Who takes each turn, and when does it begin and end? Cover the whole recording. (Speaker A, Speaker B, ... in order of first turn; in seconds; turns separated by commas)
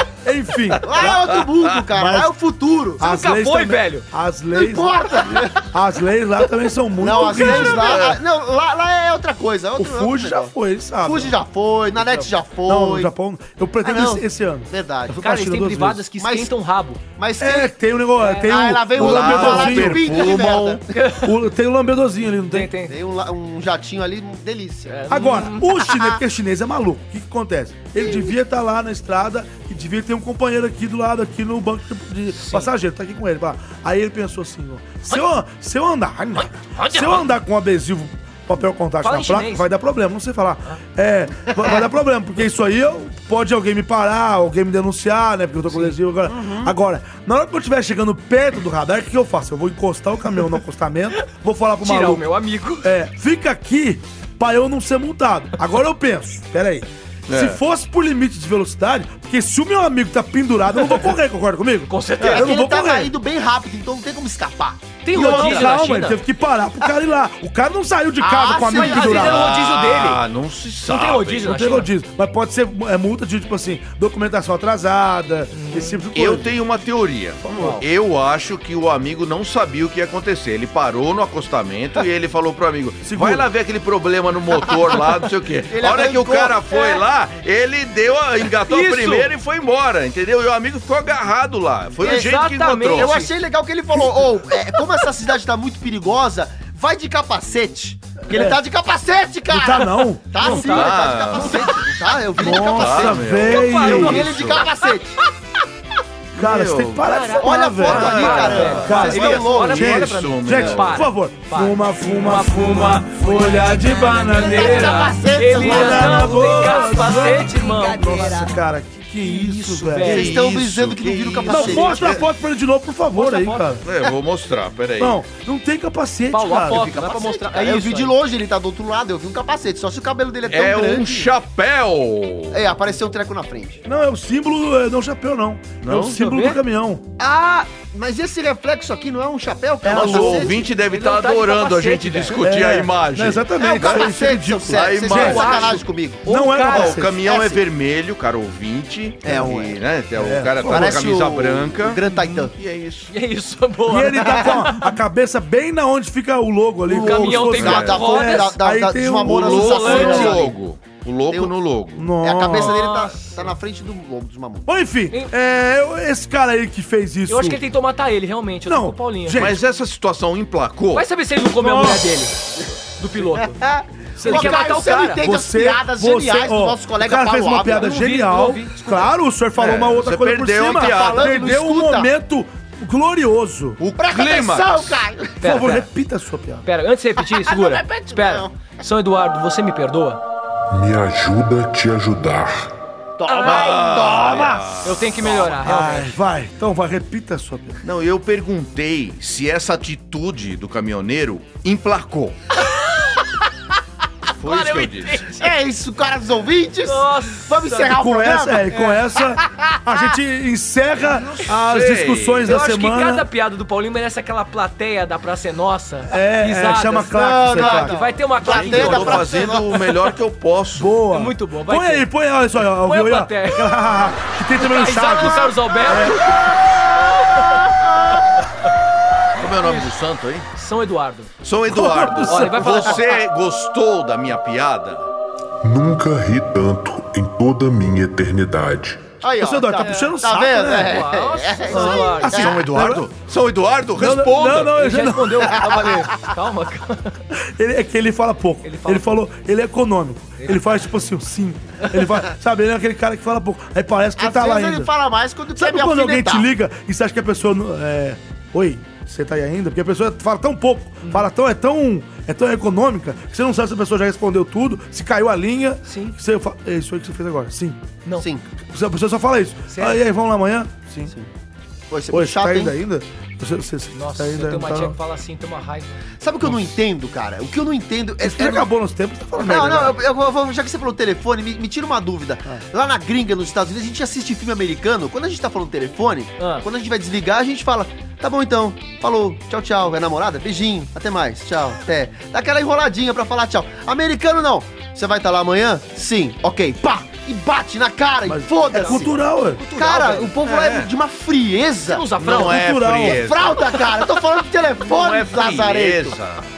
Speaker A: 0.2-1.3, Speaker B: 0.8-3.1, Speaker C: 1.0-1.9, Speaker A: 1.9-2.3, Speaker A: 3.0-8.2, Speaker D: 3.0-4.0, Speaker B: 4.5-5.7, Speaker B: 7.0-13.1, Speaker D: 7.2-8.0, Speaker A: 9.8-11.4, Speaker A: 12.7-16.0, Speaker B: 13.8-15.2, Speaker D: 15.2-17.0, Speaker B: 16.2-16.5, Speaker B: 17.2-20.8, Speaker A: 17.4-20.3, Speaker C: 18.9-20.8, Speaker D: 20.9-21.4, Speaker A: 21.2-22.7, Speaker D: 22.5-22.9, Speaker B: 22.9-25.1, Speaker D: 24.9-25.8, Speaker A: 25.1-52.2, Speaker D: 32.3-32.7, Speaker D: 36.4-37.3, Speaker D: 39.0-39.7, Speaker D: 45.7-46.0, Speaker B: 46.3-46.8, Speaker D: 51.8-52.9, Speaker A: 52.8-63.1, Speaker C: 57.3-57.6, Speaker D: 61.9-62.6, Speaker B: 62.2-65.8, Speaker D: 65.0-66.2, Speaker A: 65.1-69.4, Speaker B: 68.2-69.3, Speaker D: 68.7-70.2, Speaker C: 69.2-71.5, Speaker D: 70.9-71.9, Speaker A: 71.4-76.6, Speaker D: 75.5-76.0, Speaker C: 76.1-93.2, Speaker A: 77.4-77.8, Speaker D: 77.6-77.8, Speaker A: 83.0-83.5, Speaker B: 85.7-87.0, Speaker D: 88.7-89.3, Speaker B: 92.0-92.3, Speaker D: 92.0-93.3, Speaker B: 93.0-105.2, Speaker A: 99.5-100.6, Speaker D: 100.3-101.8, Speaker C: 100.4-101.7, Speaker A: 102.4-104.2, Speaker C: 102.4-104.7, Speaker D: 103.5-104.4, Speaker A: 106.3-120.3, Speaker C: 106.4-110.9, Speaker D: 107.1-118.5, Speaker B: 107.4-109.8, Speaker B: 114.4-116.7, Speaker D: 119.2-120.4, Speaker C: 120.0-122.2, Speaker B: 120.0-122.3, Speaker A: 121.5-123.8, Speaker D: 123.1-123.8, Speaker C: 123.8-125.2, Speaker A: 125.0-126.9, Speaker D: 126.3-128.2, Speaker B: 126.7-131.3, Speaker C: 130.5-132.7, Speaker B: 132.5-133.8, Speaker A: 133.8-137.1, Speaker C: 135.8-136.2, Speaker D: 136.0-136.6, Speaker B: 137.2-140.7, Speaker A: 139.8-140.5, Speaker C: 139.9-145.8, Speaker D: 140.7-142.4, Speaker A: 142.4-145.6, Speaker B: 143.6-146.3, Speaker D: 145.2-147.0, Speaker A: 146.2-147.2, Speaker C: 146.7-153.1, Speaker B: 147.1-147.6, Speaker B: 149.2-149.8, Speaker A: 149.2-149.5, Speaker A: 150.2-151.1, Speaker B: 150.6-152.5, Speaker D: 152.2-152.5, Speaker D: 153.1-155.0, Speaker A: 153.9-160.4, Speaker D: 156.9-158.6, Speaker B: 156.9-160.6, Speaker C: 157.5-158.0, Speaker C: 159.2-162.1, Speaker D: 159.5-160.5, Speaker B: 161.3-161.6, Speaker A: 162.0-162.8, Speaker B: 162.2-164.7, Speaker D: 162.5-163.5, Speaker A: 164.7-167.6, Speaker D: 167.3-169.5, Speaker A: 168.7-169.6, Speaker C: 169.3-171.1, Speaker D: 170.9-172.4, Speaker A: 171.6-172.1, Speaker D: 173.0-173.6, Speaker B: 173.3-177.9, Speaker A: 174.2-183.8, Speaker D: 174.2-175.2, Speaker D: 177.7-179.1, Speaker C: 179.6-181.4, Speaker B: 180.8-182.1, Speaker C: 183.8-185.1, Speaker B: 184.0-185.4, Speaker D: 185.4-185.9, Speaker A: 185.4-186.7, Speaker D: 186.7-190.2, Speaker B: 187.2-188.7, Speaker E: 190.7-192.7, Speaker B: 193.2-195.6, Speaker D: 193.3-193.9, Speaker C: 193.4-195.2, Speaker D: 194.8-196.2, Speaker A: 195.6-197.8, Speaker C: 197.8-202.4, Speaker C: 204.4-205.3, Speaker D: 204.4-205.5, Speaker B: 205.3-208.8, Speaker D: 206.8-207.9, Speaker A: 207.8-213.3, Speaker D: 208.7-209.0, Speaker B: 209.4-209.8, Speaker C: 211.7-212.5, Speaker D: 212.4-219.5, Speaker A: 216.1-218.0, Speaker B: 217.0-219.9, Speaker C: 218.4-220.9, Speaker A: 220.8-226.3, Speaker D: 221.1-222.1, Speaker D: 222.8-223.9, Speaker D: 224.6-226.2, Speaker C: 229.3-230.5, Speaker D: 230.6-231.3, Speaker C: 231.4-235.1, Speaker A: 231.7-232.9, Speaker D: 232.3-233.0, Speaker E: 235.6-239.1, Speaker B: 239.2-242.6, Speaker A: 239.4-241.1, Speaker D: 239.8-242.5, Speaker A: 241.7-243.1, Speaker C: 242.2-244.8, Speaker A: 244.0-245.9, Speaker D: 244.7-247.2, Speaker A: 247.3-254.9, Speaker D: 248.6-249.1, Speaker D: 250.4-250.8, Speaker B: 254.2-256.5, Speaker A: 255.6-267.8, Speaker D: 265.9-266.2, Speaker B: 268.2-268.5, Speaker A: 268.6-271.1, Speaker D: 269.7-270.0, Speaker B: 271.9-272.8, Speaker A: 272.1-275.0, Speaker D: 273.9-275.9, Speaker B: 276.2-278.7, Speaker A: 278.2-280.0, Speaker B: 279.4-299.1, Speaker D: 286.4-286.6, Speaker A: 298.3-299.6, Speaker D: 298.7-300.4, Speaker B: 299.8-302.1, Speaker C: 300.4-300.9, Speaker D: 301.8-302.9, Speaker C: 302.2-303.8, Speaker A: 302.3-303.2, Speaker B: 303.0-306.2, Speaker C: 304.8-306.5